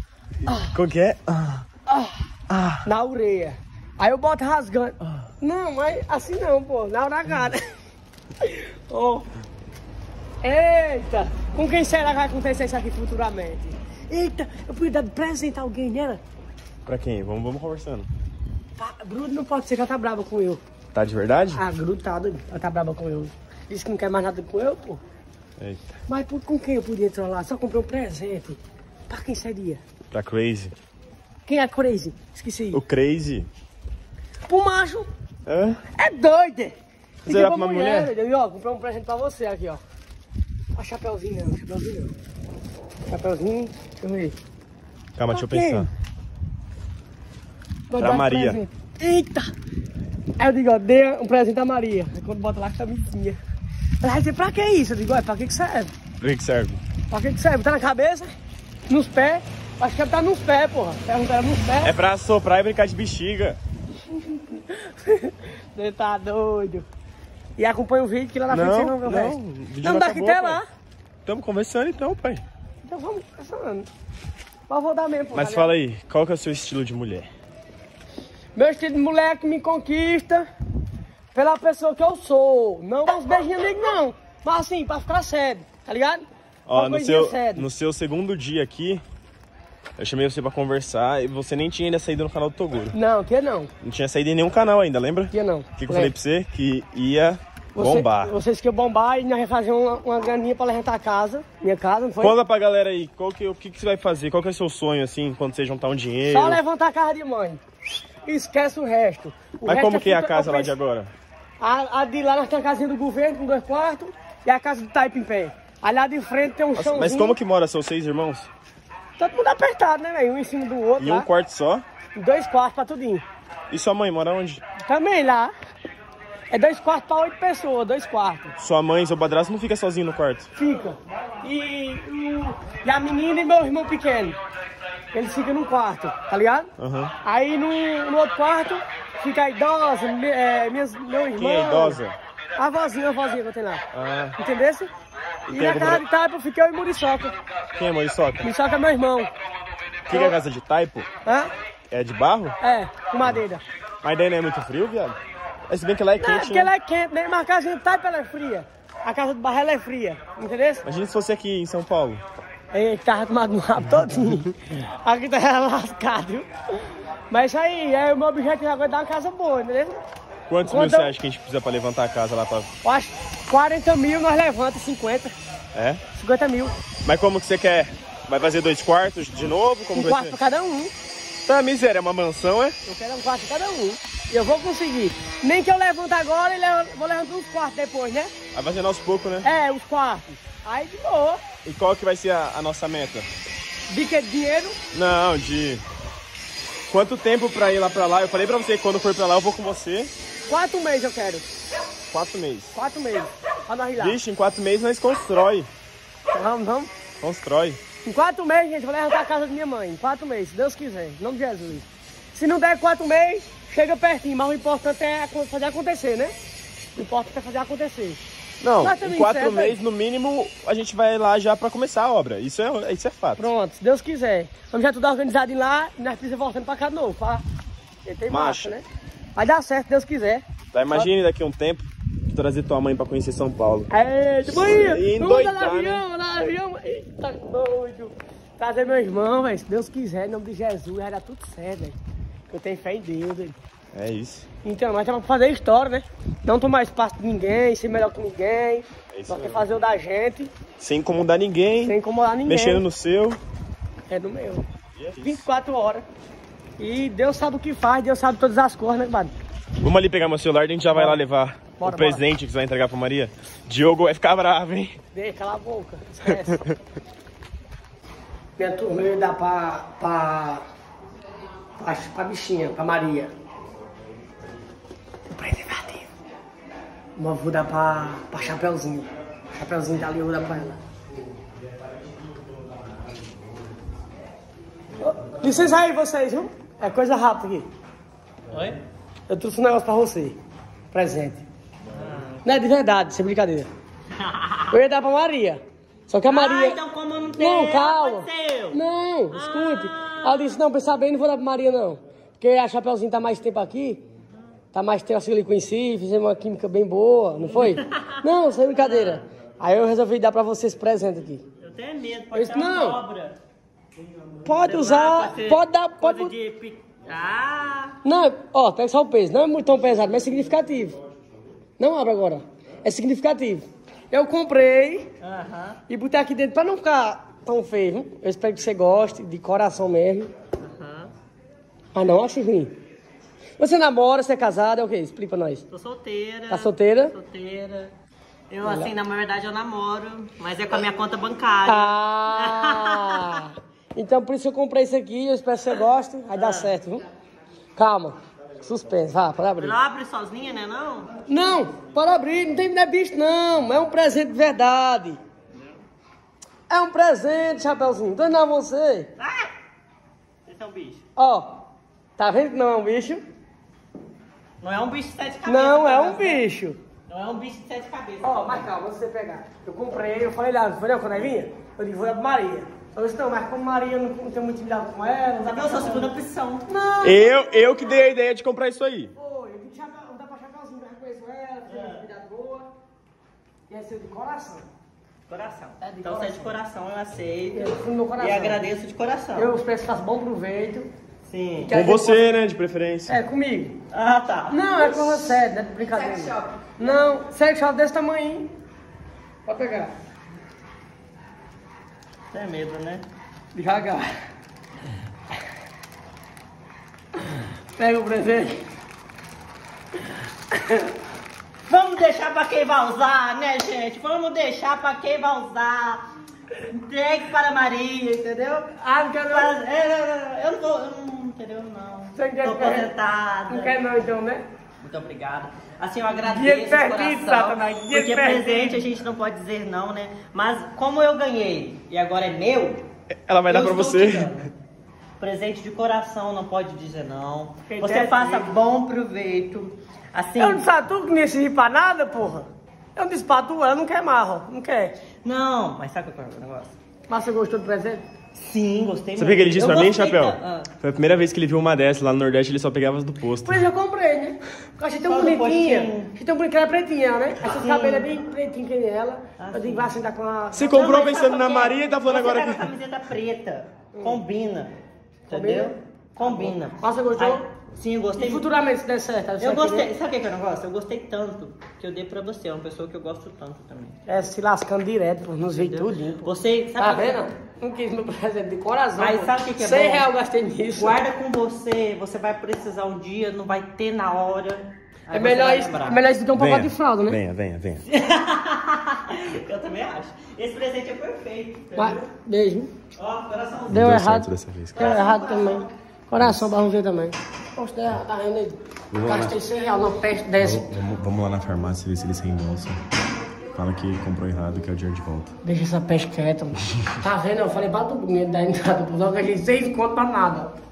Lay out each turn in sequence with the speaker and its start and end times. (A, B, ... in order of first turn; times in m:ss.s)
0:00.4-0:00.7 A
0:00.6-0:01.6 B
0:01.9-0:02.2 A
0:02.5-0:02.8 B
0:02.8-0:07.8 A
0:08.4-0:09.3 A
0:10.4-0:16.2 A
0:16.8-0:18.1 B
0:18.8-0:20.6 A
0:20.9-0:21.6 B
0:21.5-0:25.0 A
0:25.6-0:25.9 B
0:26.1-0:29.8 A
0:30.1-0:30.7 B
0:31.4-0:32.8 A
0:32.7-0:33.5 B
0:34.5-0:35.1 A
0:35.4-0:35.8 B
0:35.9-0:39.8 A
0:37.3-0:38.1 B
0:40.7-0:42.1 A
0:43.1-0:44.3 A
0:45.2-0:45.9 B
0:45.3-0:45.9 A
0:47.9-0:49.5 A
0:48.0-0:48.6 B
0:50.4-0:53.4 A
0:54.0-0:55.9 A
0:56.2-0:56.8 B
0:57.1-0:58.3 A
0:58.9-1:02.0 A
1:01.8-1:03.6 B
1:04.1-1:06.9 A
1:07.6-1:10.6 A
1:08.5-1:10.6 B
1:11.2-1:12.4 B
1:12.8-1:13.9 A
1:14.7-1:15.7 A
1:15.3-1:17.3 B
1:18.5-1:20.5 A
1:21.3-1:27.7 A
1:26.6-1:29.0 B
1:30.0-1:33.0 B
1:32.9-1:33.7 A
1:33.8-1:38.3 B
1:35.3-1:36.1 A
1:37.7-1:42.4 A
1:42.2-1:46.6 B
1:46.3-1:47.6 A
1:48.2-1:50.7 A
1:49.6-1:51.1 B
1:51.6-1:57.4 A
1:56.8-1:58.5 B
1:59.2-2:01.3 A
2:01.0-2:01.8 B
2:02.2-2:03.2 A
2:03.7-2:04.6 B
2:04.8-2:05.5 A
2:06.5-2:08.5 A
2:08.6-2:10.5 B
2:10.6-2:14.4 A
2:15.1-2:16.7 A
2:16.8-2:17.1 B
2:17.2-2:22.0 A
2:21.4-2:22.2 B
2:22.6-2:23.8 A
2:23.9-2:24.4 B
2:24.4-2:24.9 A
2:25.5-2:26.0 B
2:25.5-2:27.3 A
2:27.7-2:28.5 B
2:28.4-2:29.3 A
2:30.0-2:31.1 B
2:30.1-2:30.4 A
2:31.2-2:31.5 A
2:31.9-2:32.6 B
2:32.6-2:33.6 A
2:34.0-2:36.7 B
2:36.2-2:40.8 A
2:40.8-2:42.2 B
2:42.7-2:46.5 A
2:47.3-2:50.0 A
2:50.5-2:52.7 B
2:50.6-2:51.1 A
2:52.8-2:55.3 A
2:55.7-2:56.0 B
2:56.1-2:56.7 A
2:57.0-3:00.4 B
2:59.9-3:00.9 A
3:01.4-3:02.8 B
3:02.8-3:08.3 A
3:08.5-3:09.5 B
3:09.4-3:11.4 A
3:11.6-3:13.3 B
3:13.9-3:14.8 A
3:14.9-3:15.8 B
3:16.9-3:20.1 B
3:20.5-3:21.5 A
3:22.1-3:22.8 B
3:22.7-3:24.2 A
3:24.0-3:25.7 B
3:26.3-3:26.9 A
3:27.2-3:27.8 B
3:28.0-3:36.3 A
3:37.0-3:38.2 A
3:38.6-3:43.5 B
3:38.8-3:39.8 A
3:43.4-3:47.4 A
3:48.0-3:48.8 A
3:48.3-3:48.7 B
3:49.4-3:51.1 A
3:50.7-3:53.9 B
3:53.9-4:02.0 A
3:54.4-3:56.0 B
4:02.5-4:03.6 A
4:03.9-4:04.5 B
4:04.6-4:10.5 A
4:09.1-4:09.7 B
4:10.8-4:13.4 B
4:11.8-4:12.8 A
4:14.1-4:14.6 A
4:15.0-4:15.4 B
4:15.2-4:16.0 A
4:16.8-4:19.3 A
4:19.8-4:25.0 B
4:20.9-4:21.2 A
4:21.8-4:22.2 A
4:25.1-4:26.6 A
4:28.6-4:30.6 A
4:31.8-4:33.3 A
4:35.3-4:36.1 A
4:37.2-4:40.8 A
4:45.0-4:47.7 A
4:48.5-4:48.8 C
4:49.3-4:50.4 A
4:50.9-4:51.4 A
4:51.9-4:52.4 C
4:52.4-4:53.7 A
4:54.2-4:54.7 C
4:54.7-4:56.8 A
4:56.2-4:58.8 C
4:57.4-5:04.0 A
4:59.3-5:00.6 C
5:04.7-5:11.4 A
5:07.5-5:08.2 C
5:08.8-5:09.2 C
5:11.6-5:13.4 C
5:12.3-5:13.0 A
5:14.4-5:16.3 A
5:14.6-5:18.0 C
5:18.0-5:21.0 A
5:21.8-5:25.1 A
5:25.2-5:25.8 C
5:25.9-5:30.3 A
5:30.6-5:31.1 C
5:31.9-5:32.7 A
5:33.6-5:35.6 A
5:35.7-5:37.9 C
5:36.5-5:37.2 A
5:38.5-5:43.4 C
5:38.6-5:38.9 A
5:41.6-5:47.0 A
5:46.3-5:46.8 C
5:47.8-5:49.7 A
5:49.6-5:51.2 C
5:51.3-5:55.2 A
5:56.7-5:59.1 A
5:59.2-5:59.5 C
6:00.4-6:01.0 C
6:01.2-6:01.6 A
6:02.2-6:03.2 A
6:04.6-6:06.4 C
6:05.4-6:06.8 A
6:07.1-6:08.7 C
6:08.2-6:16.1 A
6:15.4-6:16.7 C
6:16.7-6:17.9 A
6:17.0-6:19.1 B
6:19.2-6:22.7 A
6:21.7-6:22.0 C
6:23.7-6:24.6 A
6:25.3-6:29.5 C
6:25.8-6:26.5 A
6:27.5-6:28.6 A
6:29.4-6:30.9 A
6:31.2-6:31.8 C
6:31.6-6:32.4 A
6:31.7-6:33.2 B
6:33.1-6:33.8 A
6:33.9-6:35.2 C
6:34.5-6:38.5 A
6:35.8-6:36.7 C
6:39.4-6:39.9 A
6:42.3-6:43.0 C
6:43.5-6:44.1 A
6:47.8-6:48.6 A
6:50.5-6:50.9 A
6:51.7-6:56.0 C
6:56.6-7:03.8 C
6:58.8-6:59.6 A
7:02.2-7:02.9 A
7:03.5-7:04.4 A
7:04.8-7:12.8 C
7:06.2-7:08.8 A
7:13.1-7:14.4 B
7:13.5-7:14.5 C
7:15.2-7:20.7 C
7:17.7-7:18.5 A
7:20.4-7:25.0 A
7:25.2-7:26.8 C
7:27.1-7:28.0 A
7:28.3-7:30.7 C
7:29.2-7:33.6 B
7:33.4-7:40.8 A
7:35.0-7:36.1 C
7:37.4-7:38.1 C
7:39.4-7:40.0 C
7:40.5-7:42.7 B
7:40.6-7:44.7 C
7:43.9-7:44.2 A
7:45.3-7:48.5 C
7:45.3-7:47.4 A
7:48.2-7:49.9 A
7:49.4-7:54.0 C
7:54.1-8:01.0 A
7:55.5-7:57.2 C
7:59.0-8:00.1 C
8:00.7-8:06.0 C
8:05.1-8:07.2 A
8:06.3-8:07.8 B
8:07.9-8:12.1 C
8:11.7-8:12.7 A
8:13.0-8:13.9 C
8:13.7-8:14.9 B
8:13.7-8:20.7 A
8:14.7-8:15.7 C
8:16.2-8:16.5 B
8:18.9-8:19.4 B
8:20.4-8:22.8 B
8:23.5-8:25.3 B
8:25.4-8:30.6 A